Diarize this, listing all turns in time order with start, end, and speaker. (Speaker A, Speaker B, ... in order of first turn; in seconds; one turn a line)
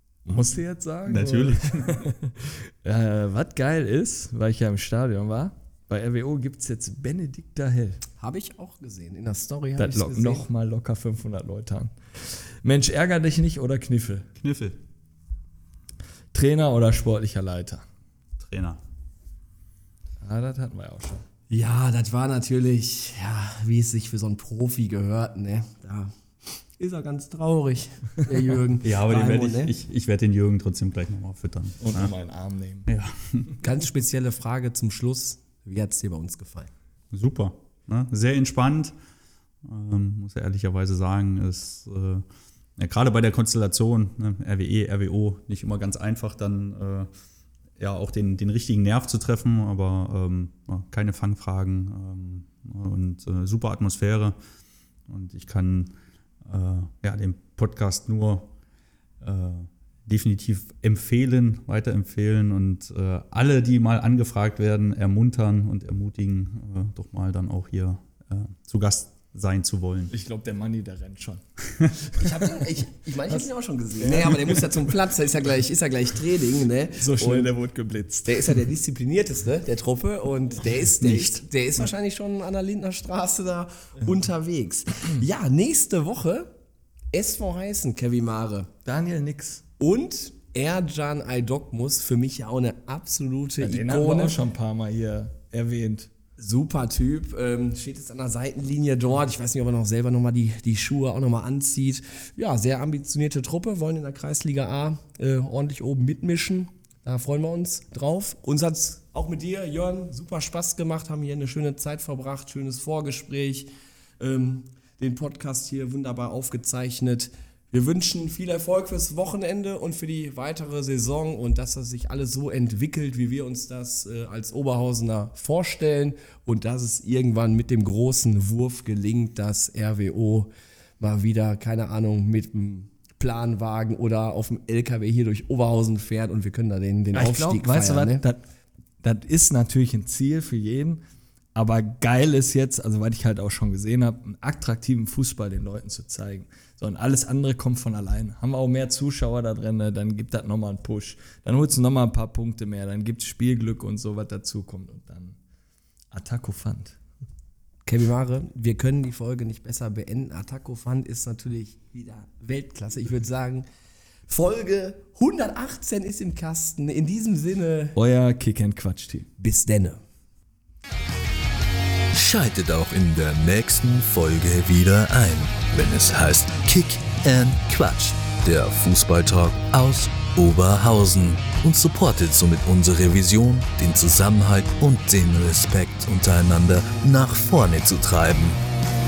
Speaker A: 0.2-8.0
Speaker B: 1.1-2.0
Speaker C: 8.2-10.4
Speaker A: 9.8-14.3
Speaker B: 14.3-14.8
Speaker A: 16.3-17.8
Speaker B: 18.4-18.8
Speaker A: 20.2-21.2
Speaker C: 21.5-29.7
Speaker B: 28.8-32.1
Speaker A: 31.8-32.9
Speaker B: 32.9-33.5
Speaker C: 33.6-36.7
Speaker B: 37.1-38.9
Speaker B: 39.6-42.2
Speaker B: 42.8-47.1
Speaker B: 47.8-54.4
Speaker B: 55.1-58.5
Speaker B: 59.2-70.1
Speaker A: 70.1-71.4
Speaker C: 72.2-77.5
Speaker A: 74.0-75.2
Speaker A: 77.0-78.6
Speaker C: 78.2-86.5
Speaker B: 80.8-81.4
Speaker C: 87.1-88.7
Speaker A: 88.8-89.6
Speaker C: 89.8-94.3
Speaker A: 93.6-96.1
Speaker C: 96.4-113.7
Speaker C: 114.2-138.2
Speaker A: 137.1-138.4
Speaker A: 139.0-141.0
Speaker A: 141.6-155.4
Speaker A: 156.1-157.0
Speaker C: 157.8-163.7
Speaker C: 164.3-168.0
Speaker A: 167.9-169.3
Speaker C: 169.4-170.0
Speaker D: 172.1-188.6